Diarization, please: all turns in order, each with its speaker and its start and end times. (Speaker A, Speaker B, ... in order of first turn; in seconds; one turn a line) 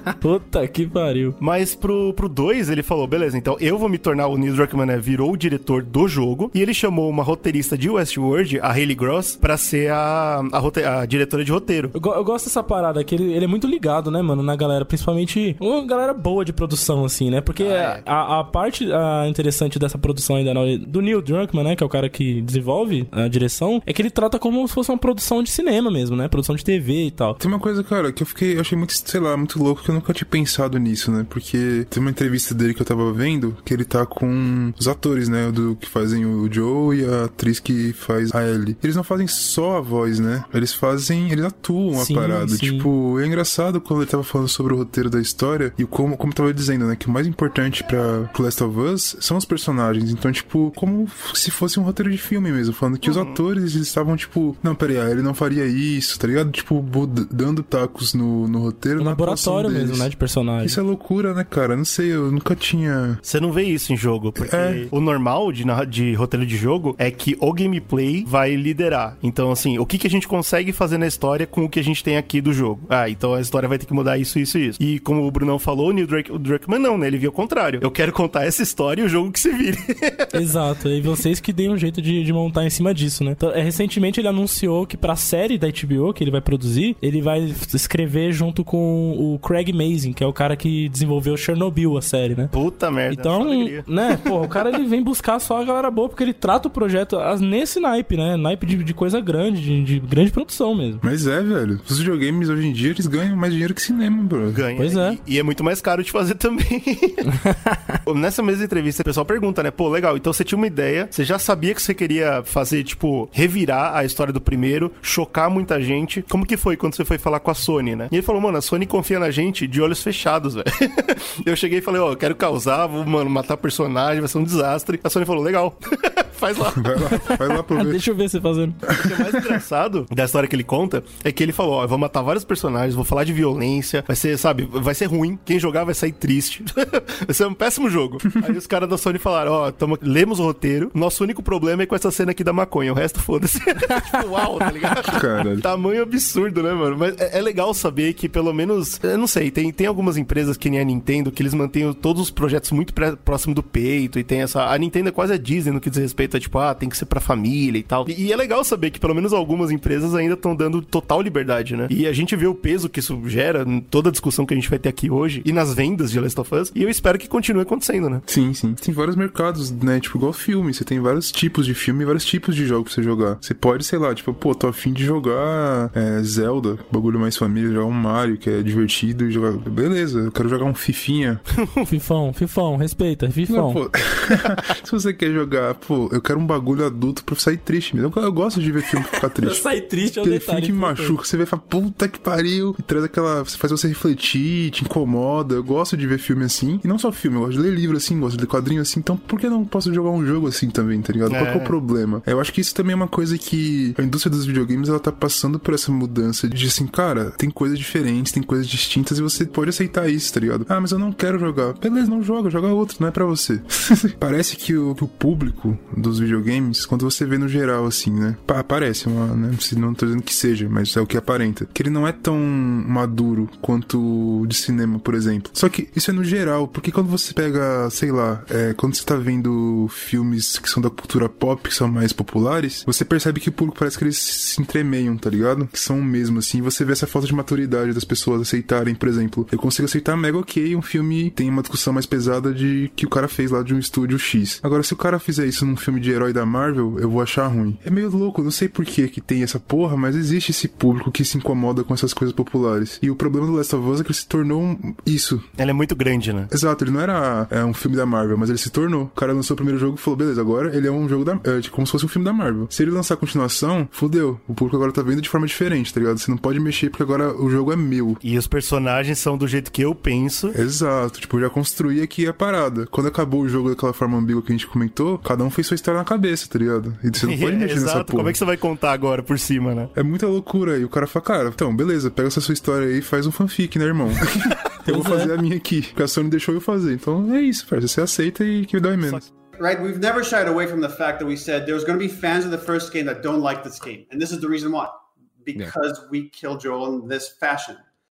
Speaker A: 0.1-1.4
Speaker B: 1.4-11.9
Speaker A: 11.9-27.4
Speaker B: 17.6-18.0
Speaker C: 27.4-60.1
Speaker A: 42.0-42.9
Speaker B: 53.0-53.4
Speaker A: 59.0-60.8
Speaker C: 60.6-63.2
Speaker B: 63.2-80.3
Speaker C: 64.4-64.8
Speaker A: 80.3-92.5
Speaker B: 92.5-93.8
Speaker A: 93.1-101.0
Speaker C: 101.0-104.6
Speaker B: 104.5-107.2
Speaker A: 104.8-105.2
Speaker A: 107.5-107.8
Speaker B: 108.1-127.1
Speaker C: 126.8-128.0
Speaker A: 127.1-128.8
Speaker B: 128.9-168.2
Speaker C: 128.9-129.4
Speaker C: 145.1-145.6
Speaker C: 168.3-181.4
Speaker B: 181.6-181.8
Speaker A: 181.9-183.8
Speaker C: 183.5-189.7
Speaker A: 189.3-191.2
Speaker C: 190.2-255.5
Speaker B: 201.3-201.8
Speaker B: 255.6-256.5
Speaker C: 256.5-268.2
Speaker B: 268.2-270.6
Speaker C: 270.5-278.4
Speaker B: 277.2-279.9
Speaker C: 279.9-289.2
Speaker A: 284.9-285.3
Speaker B: 289.0-289.3
Speaker D: 289.6-297.8